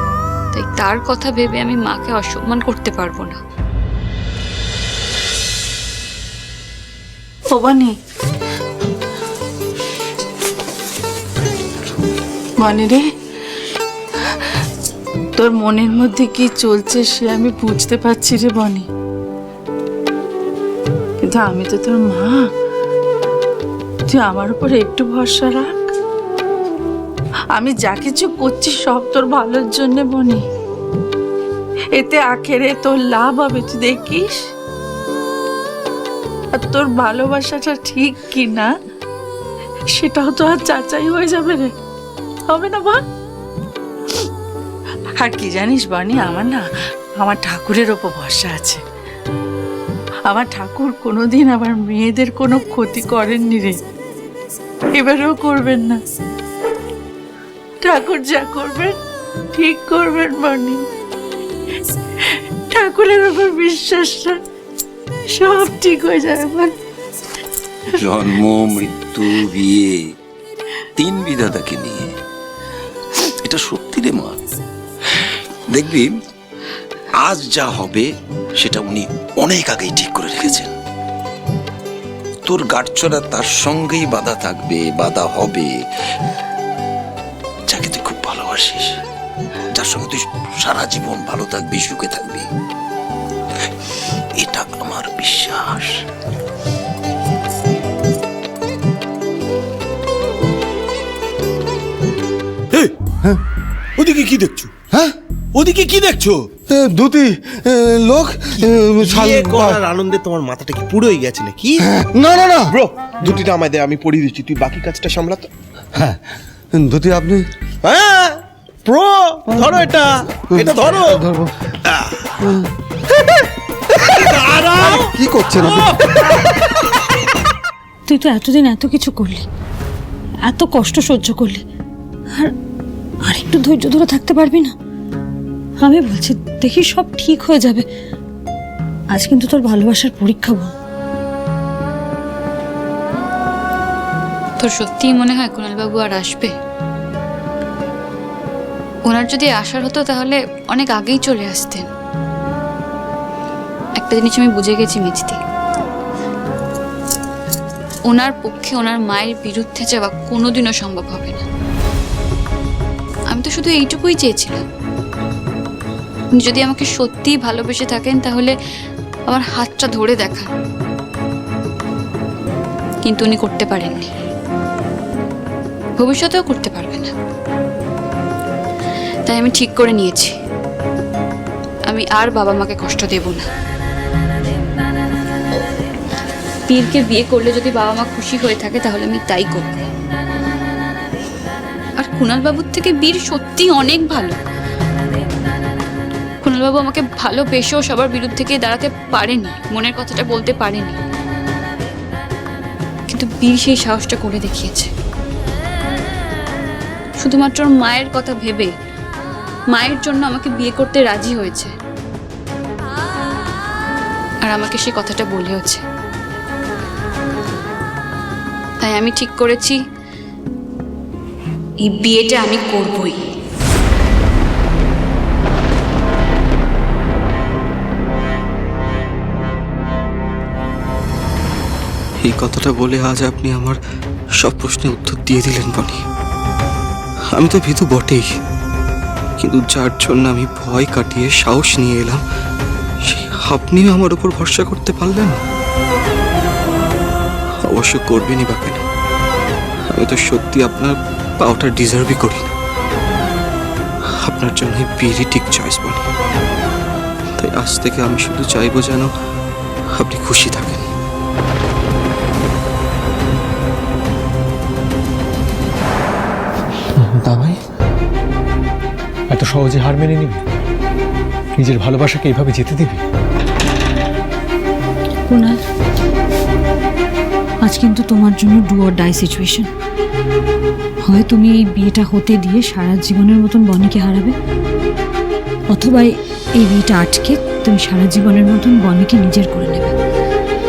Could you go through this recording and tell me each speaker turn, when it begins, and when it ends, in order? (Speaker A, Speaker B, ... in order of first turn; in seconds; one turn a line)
Speaker A: 0.6-3.4
Speaker B: 1.1-1.4
Speaker C: 7.5-8.0
Speaker C: 12.6-13.1
Speaker C: 15.4-18.9
Speaker C: 21.2-22.5
Speaker C: 24.1-25.8
Speaker C: 27.5-30.4
Speaker C: 31.9-34.4
Speaker C: 36.5-38.7
Speaker C: 39.9-41.7
Speaker C: 42.5-43.0
Speaker C: 45.2-48.8
Speaker C: 50.3-53.8
Speaker C: 54.9-56.0
Speaker C: 57.8-59.0
Speaker C: 59.5-60.9
Speaker C: 62.7-64.4
Speaker C: 65.3-66.8
Speaker D: 68.0-70.0
Speaker D: 71.0-72.1
Speaker D: 73.4-74.4
Speaker D: 75.7-76.1
Speaker D: 77.2-78.0
Speaker D: 78.6-80.7
Speaker D: 82.5-85.7
Speaker D: 87.7-88.9
Speaker D: 89.7-92.4
Speaker D: 94.4-95.8
Speaker E: 104.0-104.7
Speaker E: 105.5-106.5
Speaker B: 106.7-109.8
Speaker E: 108.6-111.8
Speaker B: 111.9-112.7
Speaker E: 112.7-115.5
Speaker B: 116.0-116.2
Speaker B: 116.7-117.4
Speaker E: 117.8-121.2
Speaker B: 120.5-121.5
Speaker E: 121.9-122.2
Speaker E: 124.1-125.1
Speaker B: 125.0-125.8
Speaker E: 125.6-126.0
Speaker F: 128.1-129.5
Speaker F: 130.5-131.6
Speaker F: 133.2-134.7
Speaker F: 135.8-137.9
Speaker F: 139.1-140.7
Speaker A: 144.6-146.5
Speaker A: 149.1-151.9
Speaker A: 154.0-155.4
Speaker B: 158.1-159.9
Speaker A: 158.1-161.4
Speaker A: 163.3-164.6
Speaker A: 166.4-168.5
Speaker A: 169.3-170.5
Speaker A: 173.1-174.1
Speaker A: 176.0-177.1
Speaker A: 179.3-180.3
Speaker A: 181.9-183.4
Speaker A: 186.7-189.7
Speaker A: 192.0-194.4
Speaker A: 196.4-201.0
Speaker A: 203.1-204.9
Speaker A: 207.2-208.7
Speaker A: 209.8-211.7
Speaker A: 214.5-215.8
Speaker A: 218.9-219.8
Speaker A: 221.9-223.2
Speaker G: 232.2-233.8
Speaker G: 234.4-236.0
Speaker G: 237.3-238.2
Speaker G: 239.4-242.2
Speaker G: 243.1-245.4
Speaker G: 247.7-248.8
Speaker G: 249.9-252.5
Speaker G: 254.2-256.1
Speaker G: 257.4-259.1
Speaker G: 259.9-260.9
Speaker H: 267.2-267.6
Speaker H: 269.3-270.4
Speaker H: 271.6-273.0
Speaker F: 275.3-275.6
Speaker F: 277.6-279.7
Speaker F: 281.0-284.4
Speaker F: 285.7-289.9